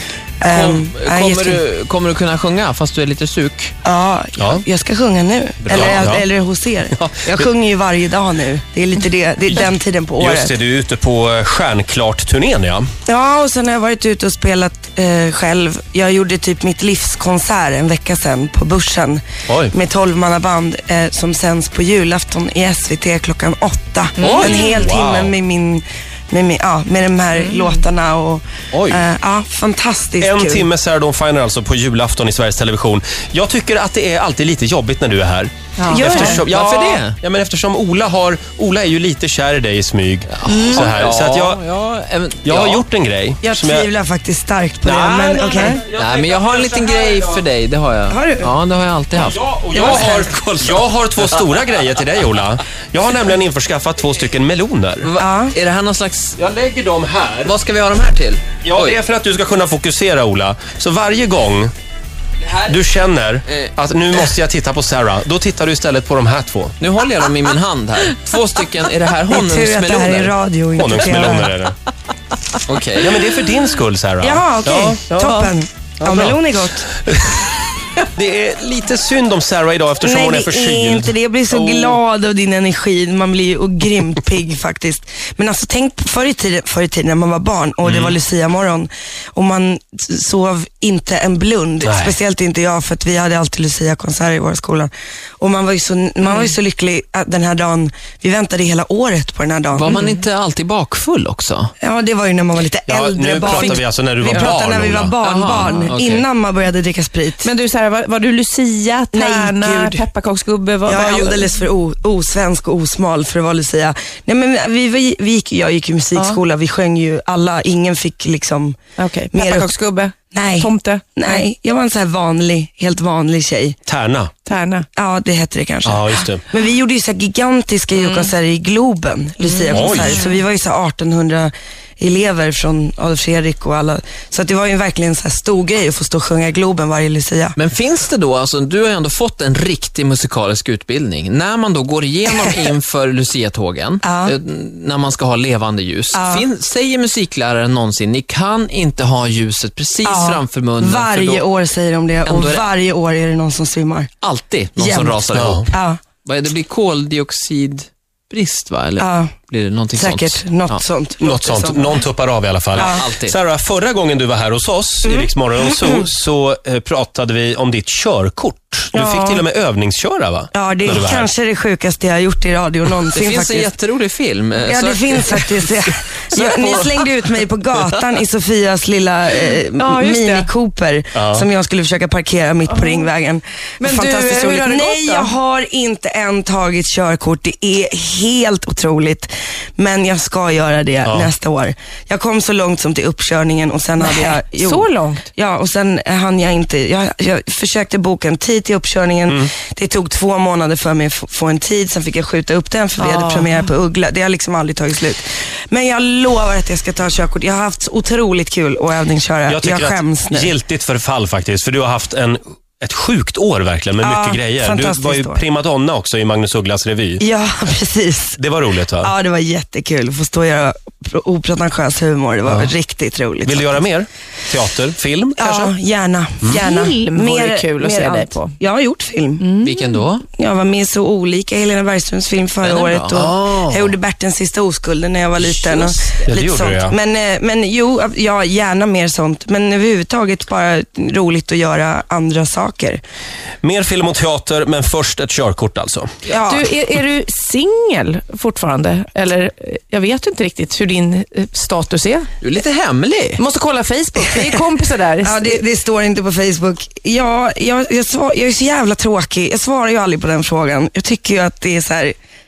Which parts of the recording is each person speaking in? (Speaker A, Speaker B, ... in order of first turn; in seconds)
Speaker A: 0.4-1.6, 3.8-10.5, 13.1-30.6, 35.9-36.4, 43.4-45.8, 48.1-48.5, 49.7-50.3, 55.2-55.5, 69.3-71.5, 74.2-76.9, 80.0-100.0, 101.8-107.5, 109.1-110.0, 110.8-118.8, 119.3-119.7, 120.3-123.8, 125.0-137.6, 144.0-144.3, 146.1-146.4, 150.0-154.1, 154.8-156.0, 159.0-159.3, 159.9-162.0, 162.8-163.0, 165.0-166.1, 168.9-169.4, 170.5-173.7, 174.6-210.5, 214.0-215.4, 217.2-218.4, 219.0-223.8, 225.4-229.5, 230.4-243.0, 246.3-246.6, 255.2-262.1
Speaker B: 0.5-3.7, 5.7-6.0, 36.3-37.1, 40.3-42.8, 45.9-51.9, 55.0-56.4, 57.4-59.0, 62.5-62.7, 66.8-70.3, 72.7-73.2, 99.7-101.7, 103.5-103.7, 105.2-106.2, 137.6-151.4, 152.2-152.6, 154.2-155.7, 156.2-160.8, 162.7-163.3, 173.1-175.8, 176.3-177.2, 229.6-230.2, 232.6-233.3, 235.4-236.2, 252.4-253.4
Speaker C: 4.4-4.6, 5.6-6.2, 10.2-12.9, 19.5-19.7, 24.2-25.3, 28.7-29.0, 30.2-41.6, 42.4-43.9, 44.8-47.5, 49.1-55.1, 56.4-57.5, 58.6-61.7, 62.7-66.7, 70.8-71.8, 73.0-75.0, 76.0-76.4, 76.9-77.4, 78.1-81.1, 87.8-88.2, 91.8-92.2, 102.9-105.2, 123.8-124.3, 125.8-126.4, 129.7-130.2, 155.3-155.7, 161.2-171.3, 181.1-181.4, 191.0-191.3, 209.5-217.2, 218.4-219.1, 222.4-222.7, 223.4-225.4, 233.1-233.9, 236.2-236.9, 243.6-246.1
Speaker D: 24.2-24.5, 27.4-27.8, 35.8-36.4, 40.5-40.8, 75.1-75.5, 99.9-100.2, 107.4-111.5, 119.0-121.4, 124.5-124.8, 128.0-128.3, 129.4-130.3, 179.8-180.5, 182.7-183.1, 183.8-185.3, 194.0-195.3, 203.0-203.7, 225.4-225.7, 226.4-228.5, 229.4-230.0, 246.4-252.3, 253.4-255.6